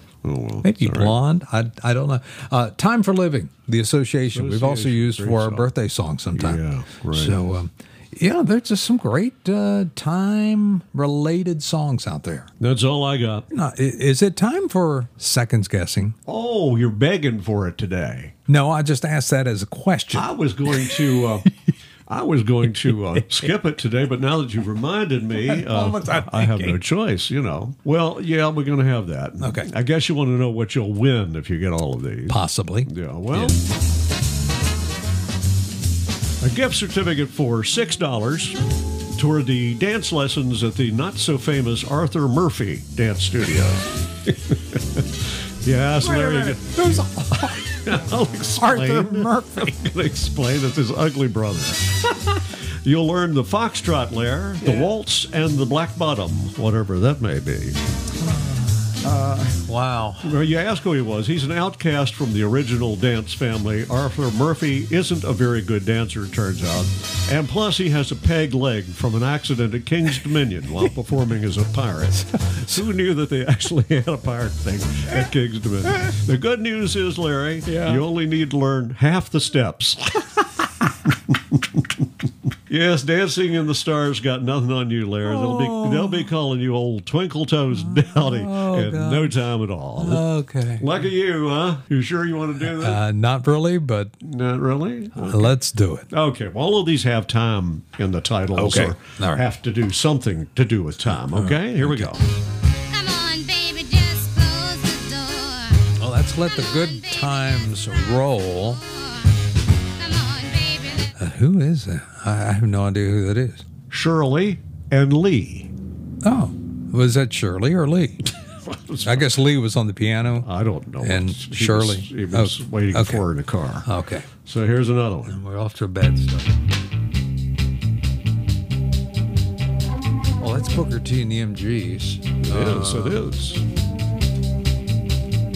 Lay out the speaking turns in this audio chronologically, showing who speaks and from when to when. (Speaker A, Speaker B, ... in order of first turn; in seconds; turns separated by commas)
Speaker A: 0.2-1.1, Speaker B: 0.6-12.5, Speaker A: 4.3-5.7, Speaker A: 6.3-7.4, Speaker A: 12.6-13.4, Speaker B: 13.5-16.1, Speaker A: 16.2-18.3, Speaker B: 18.5-21.1, Speaker A: 20.1-21.5, Speaker A: 22.1-33.6, Speaker B: 25.4-26.8, Speaker B: 29.4-29.7, Speaker B: 32.3-33.6, Speaker A: 36.4-38.6, Speaker A: 39.1-46.8, Speaker B: 46.0-47.7, Speaker A: 47.6-52.1, Speaker B: 48.6-49.7, Speaker A: 52.6-57.8, Speaker B: 58.2-59.0, Speaker A: 59.0-59.6, Speaker B: 59.6-60.3, Speaker A: 60.2-82.0, Speaker B: 72.3-72.6, Speaker B: 77.7-78.0, Speaker A: 82.7-90.2, Speaker B: 85.2-86.3, Speaker B: 87.8-89.4, Speaker B: 90.0-90.9, Speaker A: 90.8-93.0, Speaker B: 92.6-94.1, Speaker A: 94.2-95.5, Speaker B: 95.2-96.1, Speaker A: 96.1-102.2, Speaker B: 98.5-99.4, Speaker B: 101.1-102.2, Speaker C: 102.9-105.7, Speaker B: 106.0-108.8, Speaker C: 110.0-111.0, Speaker B: 111.1-113.6, Speaker A: 113.9-115.7, Speaker B: 116.2-118.2, Speaker A: 118.6-119.4, Speaker B: 119.0-120.5, Speaker A: 120.4-123.9, Speaker B: 121.0-123.2, Speaker B: 123.8-124.3, Speaker A: 124.4-125.3, Speaker B: 125.2-126.6, Speaker B: 130.4-133.2, Speaker A: 132.4-133.6